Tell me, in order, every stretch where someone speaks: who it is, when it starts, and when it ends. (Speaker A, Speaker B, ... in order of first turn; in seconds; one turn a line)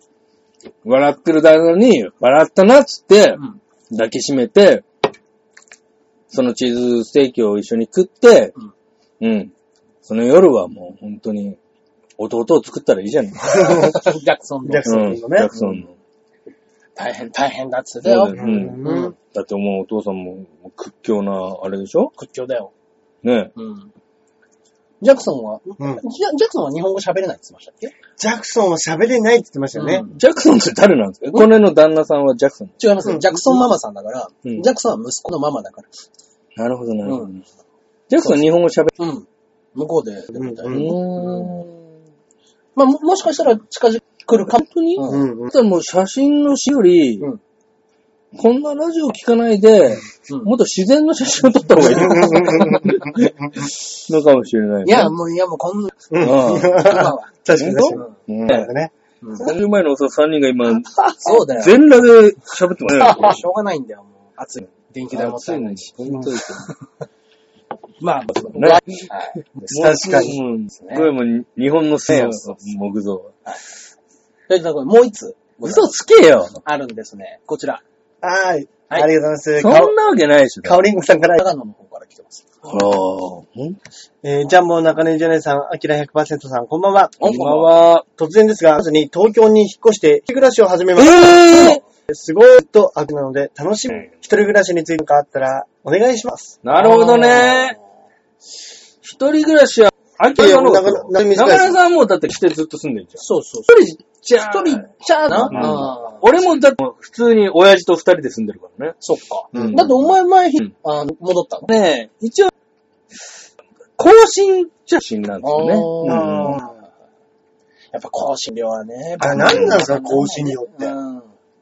Speaker A: 0.8-4.8
Speaker A: 6.3-8.5
Speaker A: 9.2-9.5
Speaker A: 10.0-11.6
Speaker A: 12.2-13.9
Speaker B: 13.5-15.8
Speaker C: 13.6-13.9
Speaker C: 14.6-15.5
Speaker A: 14.8-15.9
Speaker B: 16.9-19.1
Speaker A: 18.0-22.1
Speaker C: 18.3-19.1
Speaker B: 22.1-22.7
Speaker A: 23.2-23.5
Speaker B: 23.6-23.9
Speaker B: 25.0-27.9
Speaker C: 28.2-30.1
Speaker B: 29.7-30.2
Speaker A: 30.1-32.8
Speaker B: 32.8-35.9
Speaker C: 33.0-33.6
Speaker A: 36.5-37.4
Speaker B: 37.0-37.3
Speaker A: 38.1-38.9
Speaker B: 39.0-41.5
Speaker C: 40.3-40.9
Speaker A: 40.7-41.8
Speaker B: 42.8-45.3
Speaker A: 44.5-47.3
Speaker C: 45.1-45.5
Speaker A: 48.3-55.1
Speaker C: 51.9-53.0
Speaker B: 52.3-52.6
Speaker B: 54.8-57.3
Speaker C: 56.1-58.9
Speaker A: 56.2-57.0
Speaker A: 57.5-58.7
Speaker B: 59.2-59.5
Speaker A: 59.4-63.4
Speaker B: 61.2-61.8
Speaker B: 63.0-65.9
Speaker A: 65.1-66.7
Speaker B: 68.0-71.1
Speaker A: 68.5-69.0
Speaker C: 69.7-70.3
Speaker A: 69.7-73.3
Speaker B: 74.5-75.9
Speaker A: 75.6-76.6
Speaker B: 76.6-77.8
Speaker C: 78.2-79.9
Speaker A: 79.6-80.8
Speaker C: 80.6-81.4
Speaker B: 81.4-82.5
Speaker A: 82.6-83.8
Speaker C: 84.2-87.2
Speaker B: 87.2-87.7
Speaker A: 87.2-88.0
Speaker C: 88.2-96.6
Speaker A: 91.0-91.8
Speaker A: 96.6-97.8
Speaker B: 96.7-97.8
Speaker A: 99.0-109.0
Speaker C: 100.3-101.8
Speaker B: 103.2-106.3
Speaker C: 105.5-105.8
Speaker B: 109.0-111.7
Speaker C: 109.5-109.8
Speaker A: 109.5-109.9
Speaker A: 111.7-112.5
Speaker A: 114.0-116.6
Speaker B: 115.4-116.7
Speaker C: 116.0-116.7
Speaker B: 117.9-121.3
Speaker C: 119.2-120.9
Speaker A: 119.4-119.7